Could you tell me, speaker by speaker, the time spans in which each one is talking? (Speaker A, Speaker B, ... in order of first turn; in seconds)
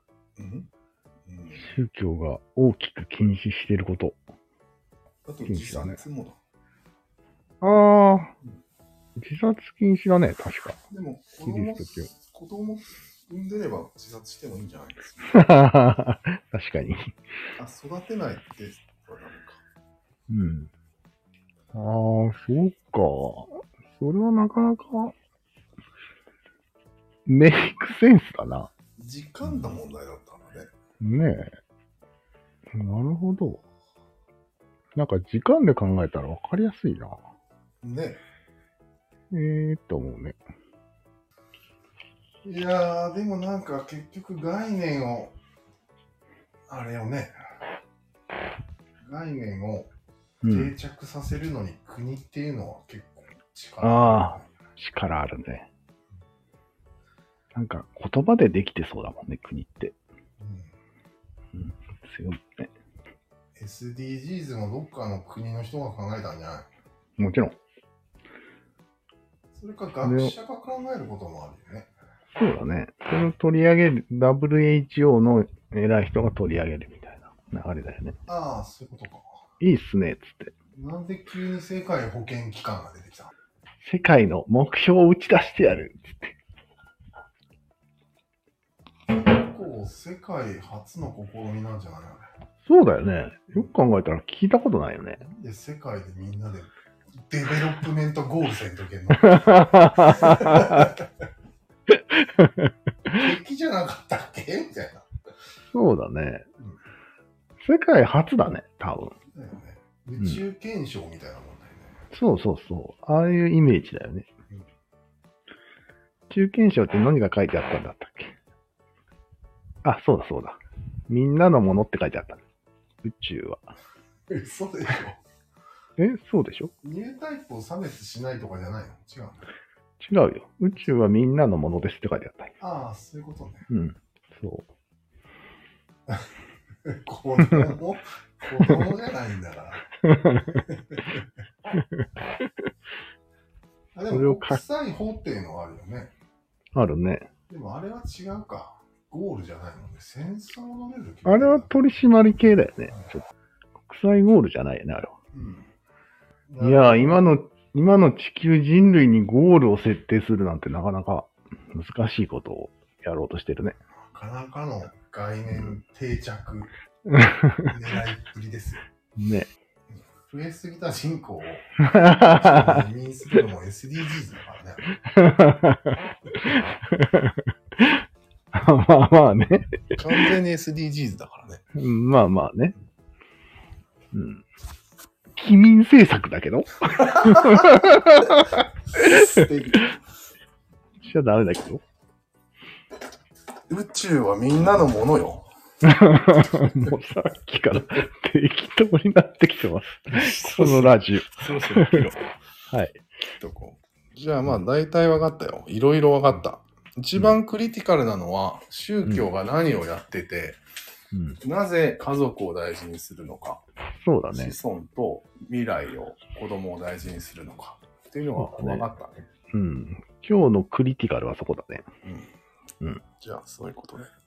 Speaker A: 0.4-0.7, 1.3-1.7, 5.2-6.4, 10.9-15.5, 17.6-19.6, 29.0-30.7, 37.8-38.2, 42.4-45.3, 46.7-47.4, 49.0-49.9, 50.5-54.5, 60.4-60.7, 63.5-66.7, 69.5-71.9, 78.3-79.2, 80.7-83.3, 89.1-92.3, 95.2-101.0, 103.1-105.1, 109.3-111.9, 124.3-125.2, 126.8-129.5, 132.6-133.7, 136.8-141.2, 143.9-146.1, 147.5-151.8, 155.3-155.7, 156.5-157.2, 164.1-166.7, 167.6-168.8, 170.1-174.8, 179.9-181.6, 187.1-189.9, 193.7-195.5, 200.1-202.3, 203.4-210.6, 211.4-213.6, 214.3-219.2, 222.0-222.3, 223.2-224.1
Speaker B: 1.6-4.2, 5.5-6.0, 7.6-8.3, 9.2-10.8, 11.4-12.1, 15.3-17.1, 20.3-20.7, 21.7-25.1, 27.2-28.7, 31.0-31.6, 32.7-33.6, 34.9-37.2, 39.3-40.4, 50.4-50.7, 53.8-55.7, 57.5-59.9, 61.5-62.7, 67.2-67.6, 70.0-70.3, 72.3-78.2, 79.6-80.5, 83.8-86.4, 92.7-95.2, 99.1-100.9, 101.9-102.7, 105.7-106.5, 107.6-109.1, 112.1-114.3, 116.3-118.3, 119.8-122.4, 123.0-123.7, 126.0-126.7, 130.0-132.6, 133.7-134.7, 140.0-140.6, 144.1-144.6, 146.7-147.3, 151.2-153.2, 153.8-155.2, 156.6-163.8, 167.1-167.8, 169.2-169.5, 171.8-172.8, 175.0-180.3, 181.7-182.7, 184.1-184.4, 185.3-189.8, 191.0-191.8, 195.8-202.1, 202.7-203.0, 211.1-211.4, 214.0-214.6, 218.4-218.8, 219.5-221.9